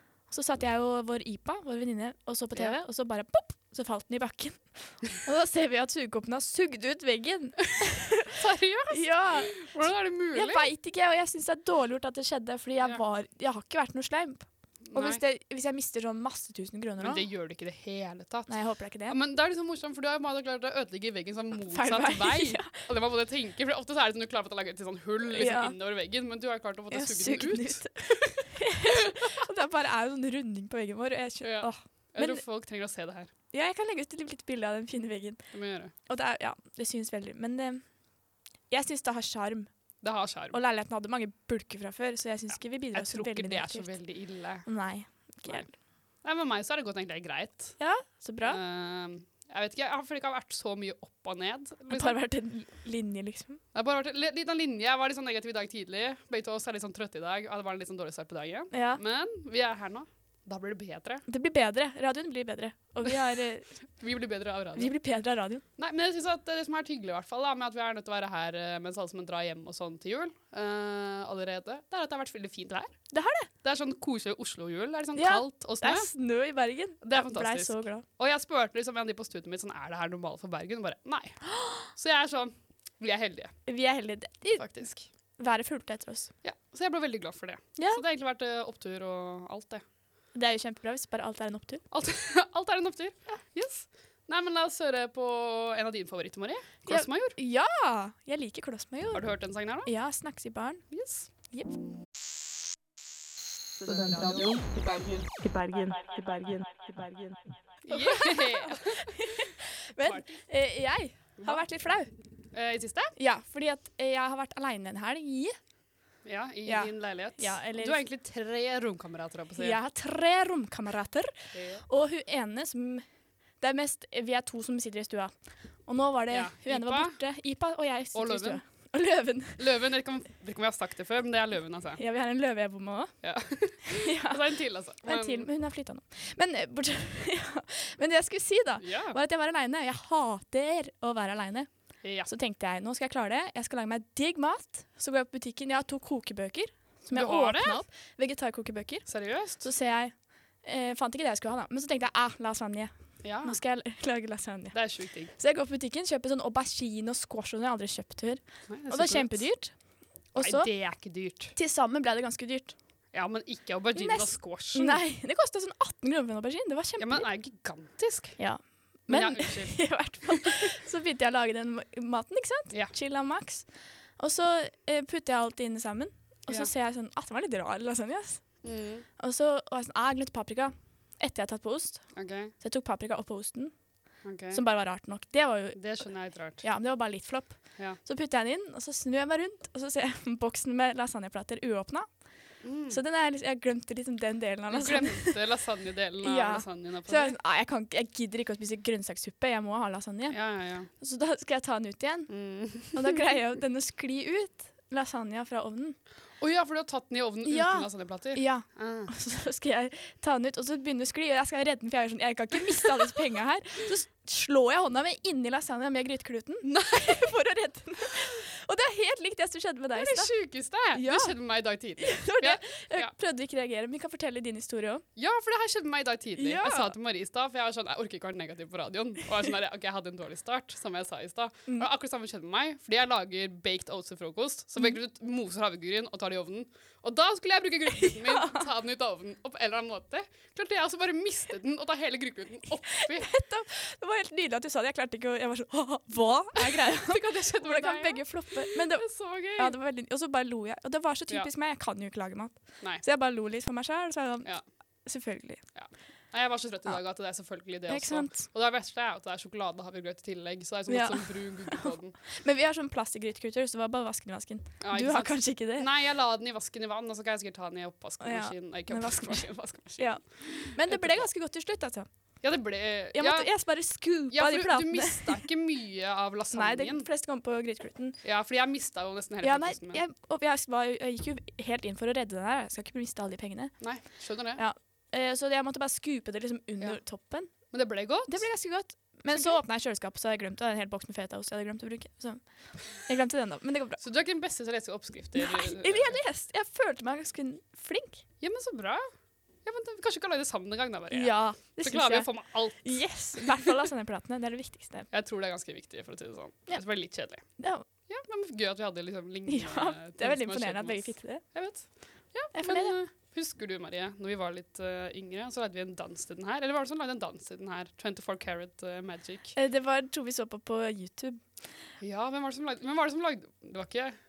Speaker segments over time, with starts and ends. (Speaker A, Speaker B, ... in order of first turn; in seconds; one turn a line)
Speaker A: 0.3-8.4
Speaker B: 8.4-10.7
Speaker A: 8.9-17.2
Speaker B: 14.9-15.2
Speaker B: 17.0-18.5
Speaker A: 18.5-19.2
Speaker B: 19.1-29.1
Speaker A: 21.6-22.8
Speaker A: 25.3-25.8
Speaker A: 26.9-32.4
Speaker B: 31.4-33.3
Speaker A: 33.5-35.4
Speaker B: 35.5-35.9
Speaker A: 36.1-37.9
Speaker A: 38.7-39.7
Speaker B: 40.0-40.6
Speaker A: 40.5-43.9
Speaker B: 42.5-44.7
Speaker A: 44.6-45.7
Speaker B: 46.2-47.8
Speaker A: 47.8-48.6
Speaker B: 48.4-52.2
Speaker A: 51.9-53.6
Speaker B: 53.7-61.2
Speaker A: 58.7-59.0
Speaker A: 61.3-63.8
Speaker B: 64.0-64.9
Speaker A: 64.8-65.6
Speaker B: 65.8-73.0
Speaker A: 73.1-73.5
Speaker B: 73.6-76.1
Speaker A: 75.2-78.0
Speaker B: 77.0-83.5
Speaker A: 81.5-81.9
Speaker A: 83.7-84.7
Speaker B: 84.6-85.1
Speaker A: 85.4-86.3
Speaker B: 86.4-89.8
Speaker A: 87.8-88.0
Speaker A: 90.3-91.8
Speaker B: 91.9-97.4
Speaker A: 96.9-99.3
Speaker B: 99.1-99.9
Speaker A: 99.8-100.8
Speaker B: 100.9-101.3
Speaker C: 103.8-107.5
Speaker B: 107.8-109.2
Speaker A: 107.9-112.1
Speaker B: 110.0-110.4
Speaker B: 111.4-111.6
Speaker B: 112.5-113.2
Speaker A: 113.2-115.6
Speaker B: 116.2-119.8
Speaker A: 116.7-118.0
Speaker A: 119.6-123.0
Speaker B: 121.5-121.8
Speaker A: 123.6-129.6
Speaker B: 126.3-127.2
Speaker B: 128.1-128.6
Speaker B: 129.6-132.0
Speaker A: 132.0-133.1
Speaker B: 133.2-135.5
Speaker A: 133.9-141.7
Speaker B: 138.8-139.2
Speaker B: 142.0-142.3
Speaker A: 142.2-149.1
Speaker B: 147.1-147.8
Speaker B: 149.1-149.6
Speaker A: 149.6-152.9
Speaker B: 153.2-153.6
Speaker A: 153.4-159.7
Speaker B: 154.7-155.3
Speaker B: 158.7-159.5
Speaker A: 160.3-160.7
Speaker B: 160.4-161.6
Speaker A: 161.6-162.8
Speaker B: 163.1-165.0
Speaker A: 163.9-167.3
Speaker B: 167.0-168.4
Speaker A: 168.4-178.6
Speaker B: 169.1-170.7
Speaker B: 172.7-172.9
Speaker B: 178.6-179.1
Speaker A: 179.2-183.7
Speaker B: 182.1-182.5
Speaker B: 184.2-184.6
Speaker A: 184.5-186.1
Speaker B: 185.8-186.6
Speaker A: 186.6-192.2
Speaker B: 192.6-193.0
Speaker A: 192.9-195.4
Speaker B: 194.7-197.4
Speaker A: 196.2-206.0
Speaker B: 200.3-200.9
Speaker B: 202.3-203.2
Speaker B: 206.4-209.1
Speaker A: 207.4-220.4
Speaker B: 216.6-217.3
Speaker B: 219.9-223.1
Speaker A: 220.9-221.3
Speaker A: 222.0-225.0
Speaker B: 225.2-243.3
Speaker A: 226.4-226.9
Speaker A: 238.1-238.7
Speaker A: 242.9-254.5
Speaker B: 246.6-249.8
Speaker A: 255.1-255.6
Speaker B: 255.8-262.2
Speaker A: 257.9-258.4
Speaker A: 260.9-265.9
Speaker B: 264.8-271.3
Speaker A: 268.2-272.1
Speaker B: 272.4-273.5
Speaker A: 273.1-275.4
Speaker B: 274.3-277.1
Speaker A: 276.5-278.2
Speaker B: 278.2-280.0
Speaker A: 279.4-287.7
Speaker B: 283.8-284.6
Speaker B: 287.7-288.5
Speaker A: 288.3-294.0
Speaker B: 289.3-289.6
Speaker B: 294.0-296.2
Speaker A: 295.4-298.2
Speaker B: 298.4-299.0
Speaker B: 299.6-303.7
Speaker A: 301.1-305.1
Speaker B: 305.1-307.5
Speaker A: 307.5-307.9
Speaker B: 308.1-319.6
Speaker A: 309.5-311.4
Speaker A: 312.5-313.0
Speaker A: 319.6-321.7
Speaker B: 322.0-324.1